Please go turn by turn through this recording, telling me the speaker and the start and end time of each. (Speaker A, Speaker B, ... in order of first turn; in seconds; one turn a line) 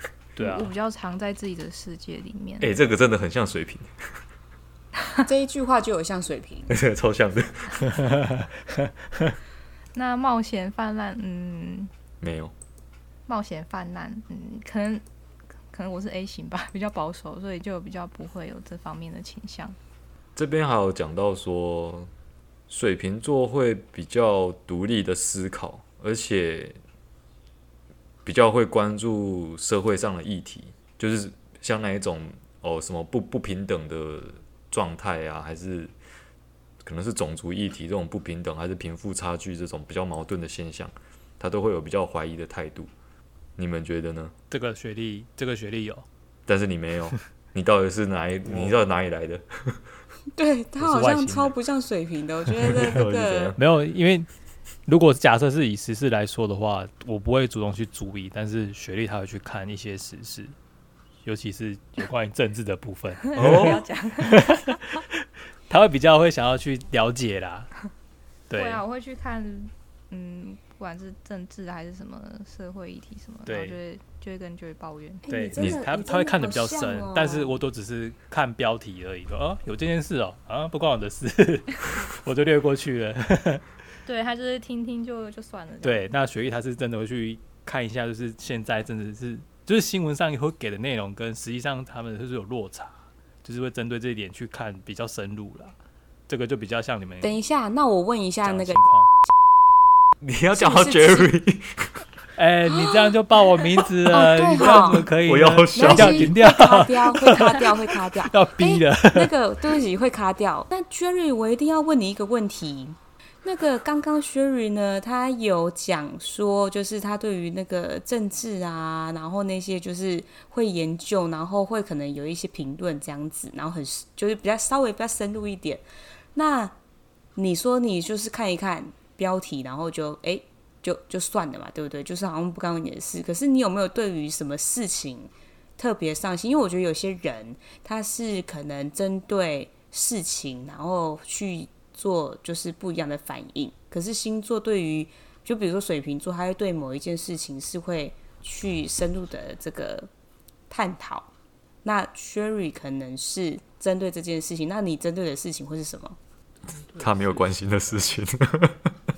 Speaker A: 0.3-0.7
Speaker B: 0.4-2.7
Speaker C: 2.6-3.9
Speaker D: 5.2-6.7
Speaker C: 6.7-7.8
Speaker A: 7.9-9.3
Speaker B: 9.9-11.9
Speaker C: 12.2-12.5
Speaker B: 13.3-15.0
Speaker B: 15.7-19.8
Speaker C: 20.3-22.1
Speaker C: 22.7-26.8
Speaker C: 28.2-35.9
Speaker C: 36.8-42.9
Speaker C: 43.6-44.3
Speaker A: 44.5-46.0
Speaker C: 46.5-49.8
Speaker A: 48.5-48.8
Speaker D: 50.4-53.5
Speaker A: 50.8-51.5
Speaker A: 52.6-53.0
Speaker C: 52.7-53.6
Speaker A: 53.5-54.3
Speaker A: 54.9-60.5
Speaker A: 61.2-67.7
Speaker B: 63.2-65.0
Speaker C: 63.4-63.8
Speaker A: 68.5-68.8
Speaker B: 68.5-75.2
Speaker A: 73.5-73.8
Speaker D: 75.2-77.5
Speaker A: 75.3-83.6
Speaker C: 75.6-75.8
Speaker B: 84.0-86.0
Speaker A: 85.8-95.7
Speaker A: 96.3-97.3
Speaker D: 97.2-98.8
Speaker A: 98.4-99.1
Speaker C: 100.2-101.9
Speaker D: 100.5-101.3
Speaker A: 102.3-109.3
Speaker D: 102.7-103.1
Speaker D: 103.7-105.1
Speaker C: 104.8-106.3
Speaker D: 105.7-125.8
Speaker D: 126.3-126.7
Speaker D: 127.3-150.1
Speaker D: 150.7-151.3
Speaker D: 151.8-156.2
Speaker A: 156.7-157.5
Speaker C: 157.0-158.9